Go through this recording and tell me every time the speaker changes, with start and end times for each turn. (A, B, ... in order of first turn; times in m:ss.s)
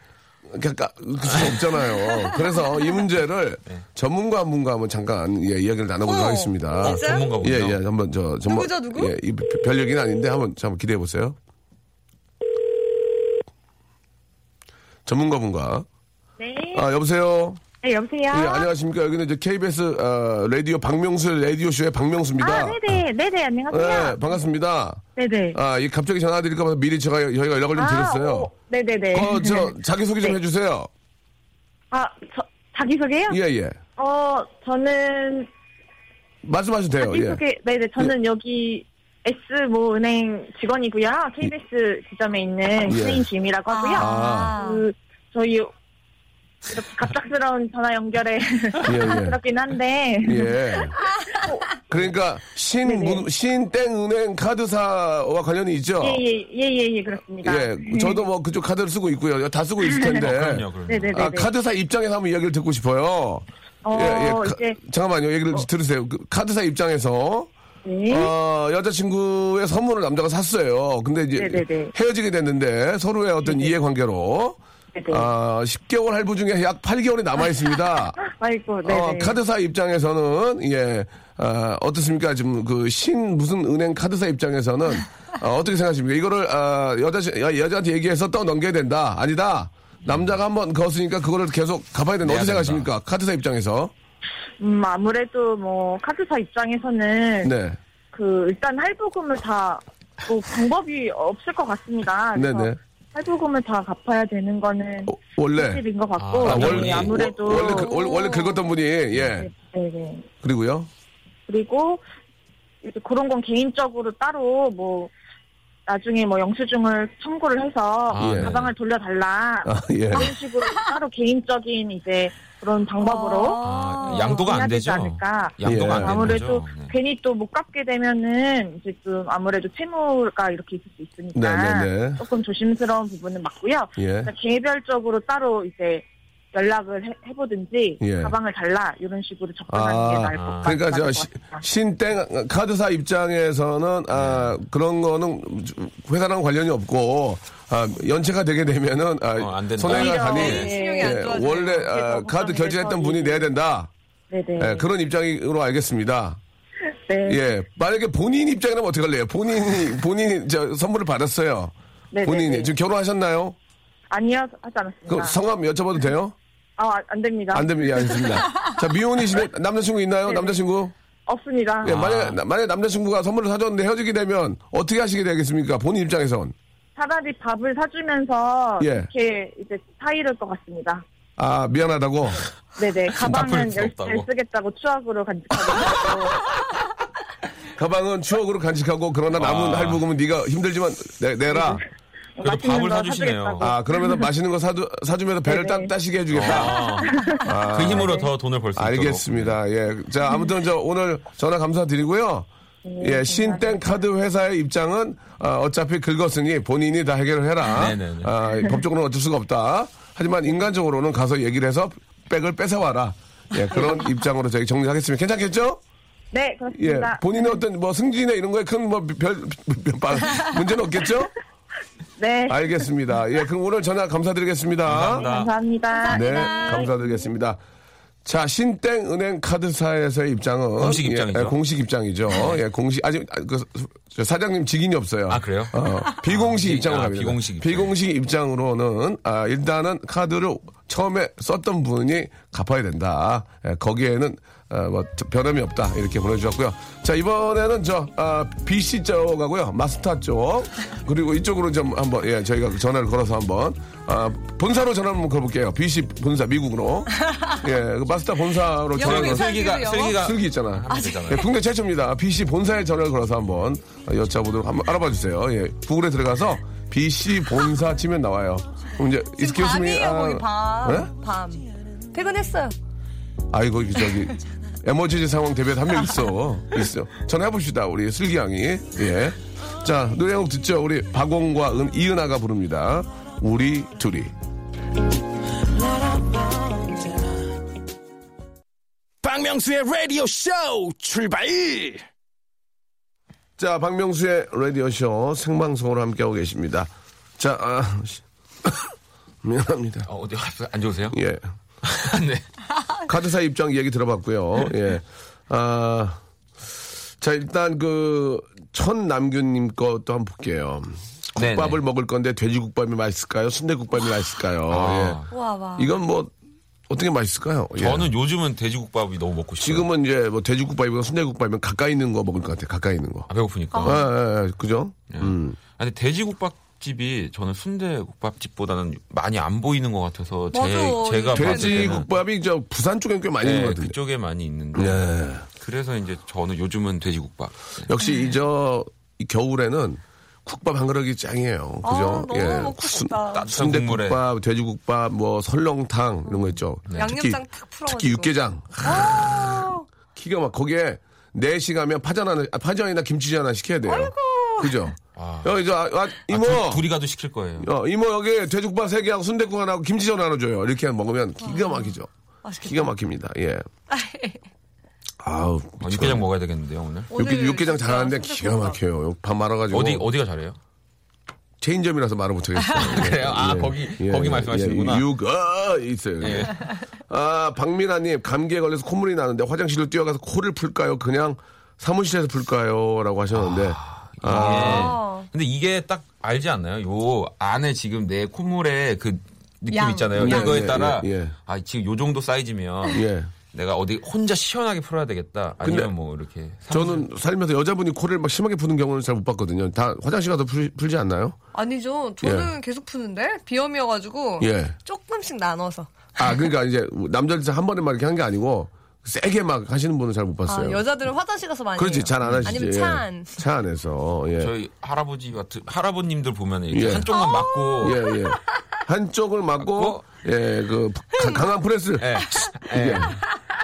0:00.5-0:11.4 A
0:01.3-0:01.6 B
0:01.9-0:03.0 C
0:06.0-0:07.3 C
0:06.8-0:07.8 B
0:08.4-0:09.1 C
0:15.1-0:15.9 A
0:16.4-0:16.9 D
0:16.7-0:17.6 A
0:17.8-0:18.7 D
0:18.3-0:23.0 A
0:22.4-0:24.4 D
0:23.7-0:25.0 A
0:25.2-0:25.6 D
0:25.5-0:28.5 A
0:27.8-0:29.7 D
0:29.1-0:30.9 A
0:31.9-0:33.4 D
0:33.3-0:33.8 A
0:34.0-0:35.5 D
0:36.4-0:37.4 A
0:37.0-0:45.7 D
0:42.8-0:43.3 A
0:43.7-0:44.9 C
0:43.9-0:44.6 A
0:46.7-0:51.6 D
0:48.8-0:49.4 A
0:50.2-0:51.0 A
0:51.8-0:56.2 A
0:52.8-0:53.2 D
0:56.0-0:58.2 D
0:57.4-1:07.5 A
0:59.8-1:00.2 D
1:00.2-1:01.3 B
1:00.9-1:01.5 D
1:03.8-1:04.8 D
1:07.8-1:08.3 D
1:08.1-1:14.6 A
1:11.4-1:11.9 D
1:13.5-1:13.7 D
1:15.0-1:15.3 D
1:15.1-1:18.2 A
1:18.3-1:19.4 D
1:18.8-1:33.9 A
1:30.0-1:30.3 B
1:32.2-1:32.9 B
1:34.6-1:37.5 D
1:37.4-1:37.8 A
1:38.1-1:48.6 D
1:42.3-1:42.8 A
1:45.1-1:45.8 A
1:46.2-1:47.9 B
1:46.4-1:49.5 A
1:49.3-1:50.3 D
1:50.4-1:50.9 A
1:51.5-1:52.0 D
1:52.8-1:55.1 D
1:55.9-2:21.6 D
1:58.1-1:58.7 B
1:58.2-1:58.6 A
1:59.6-2:00.4 A
2:03.0-2:04.6 C
2:03.6-2:06.9 B
2:05.6-2:06.4 A
2:11.3-2:12.2 A
2:14.0-2:14.3 A
2:18.0-2:18.4 A
2:19.7-2:33.9 A
2:20.3-2:20.7 B
2:24.1-2:24.6 B
2:29.4-2:30.7 B
2:29.9-2:33.5 D
2:30.3-2:32.0 C
2:34.3-2:34.9 D
2:34.6-2:36.4 A
2:37.1-2:37.4 D
2:37.3-2:43.6 A
2:42.1-2:42.7 D
2:44.1-2:45.3 D
2:45.1-2:46.4 A
2:46.8-2:48.7 D
2:47.5-2:50.9 A
2:50.3-2:50.6 D
2:51.3-2:52.0 D
2:51.8-2:56.5 A
2:51.8-2:52.4 B
2:57.0-3:01.0 D
2:58.8-2:59.1 A
3:01.4-3:02.4 A
3:02.8-3:06.6 D
3:03.1-3:04.3 B
3:07.8-3:11.8 A
3:09.3-3:10.0 B
3:11.5-3:11.8 D
3:12.4-3:14.2 D
3:12.4-3:13.8 B
3:13.6-3:18.2 A
3:15.5-3:15.9 D
3:16.3-3:17.2 B
3:16.4-3:18.3 D
3:17.7-3:19.6 B
3:18.8-3:22.5 A
3:22.8-3:23.8 D
3:23.0-3:35.8 A
3:27.7-3:28.3 B
3:33.7-3:34.1 D
3:36.3-3:37.6 D
3:36.8-3:41.3 A
3:42.2-3:42.9 D
3:42.5-3:45.3 A
3:44.8-3:45.5 B
3:45.1-3:47.1 D
3:46.0-3:47.0 C
3:46.1-3:47.6 A
3:48.2-4:31.1 A
3:50.8-3:51.6 B
3:52.3-3:52.6 B
3:55.3-3:57.9 B
4:17.2-4:17.6 C
4:18.9-4:20.3 C
4:19.0-4:21.4 B
4:20.9-4:21.5 C
4:29.4-4:32.7 C
4:33.5-4:44.3 A
4:45.8-4:47.3 E
4:49.2-4:52.0 E
4:53.6-4:58.9 A
4:59.4-5:00.1 A
5:00.1-5:01.2 B
5:01.1-5:01.5 A
5:01.8-5:02.4 B
5:03.0-5:06.2 A
5:07.2-5:15.2 A
5:11.4-5:11.8 B
5:14.7-5:15.3 B
5:15.3-5:16.0 C
5:15.8-5:16.3 A
5:16.9-5:18.1 A
5:17.8-5:19.9 B
5:19.6-5:23.3 A
5:23.3-5:24.0 B
5:23.7-5:24.1 C
5:23.8-5:25.6 A
5:25.1-5:32.1 B
5:30.5-5:32.0 C
5:31.3-5:34.0 A
5:33.4-5:37.9 B
5:34.8-5:35.5 A
5:37.8-5:56.9 A
5:41.8-5:43.5 C
5:43.3-5:44.2 B
5:46.3-5:49.9 C
5:46.9-5:47.2 B
5:53.9-5:54.9 C
5:55.2-5:55.6 B
5:56.3-5:57.7 B
5:57.6-6:02.1 A
6:01.4-6:02.9 C
6:02.6-6:03.6 A
6:03.9-6:04.4 C
6:05.2-6:06.3 A
6:05.8-6:07.1 B
6:07.1-6:08.8 C
6:07.1-6:10.1 A
6:09.7-6:10.6 B
6:11.6-6:25.0 A
6:12.8-6:15.1 B
6:16.2-6:16.5 B
6:23.3-6:37.1 B
6:24.3-6:25.3 C
6:29.7-6:30.7 C
6:30.2-6:31.3 A
6:32.9-6:33.3 A
6:35.6-6:35.9 A
6:36.7-6:41.4 A
6:41.5-6:46.2 C
6:42.2-6:42.5 A
6:44.4-6:44.8 A
6:46.2-6:50.8 A
6:50.5-6:53.3 C
6:51.8-6:54.5 A
6:52.2-6:52.6 B
6:54.4-6:58.1 B
6:56.7-6:57.2 A
6:57.1-6:58.6 C
6:57.8-7:03.2 A
6:59.6-7:00.2 B
7:02.0-7:03.2 B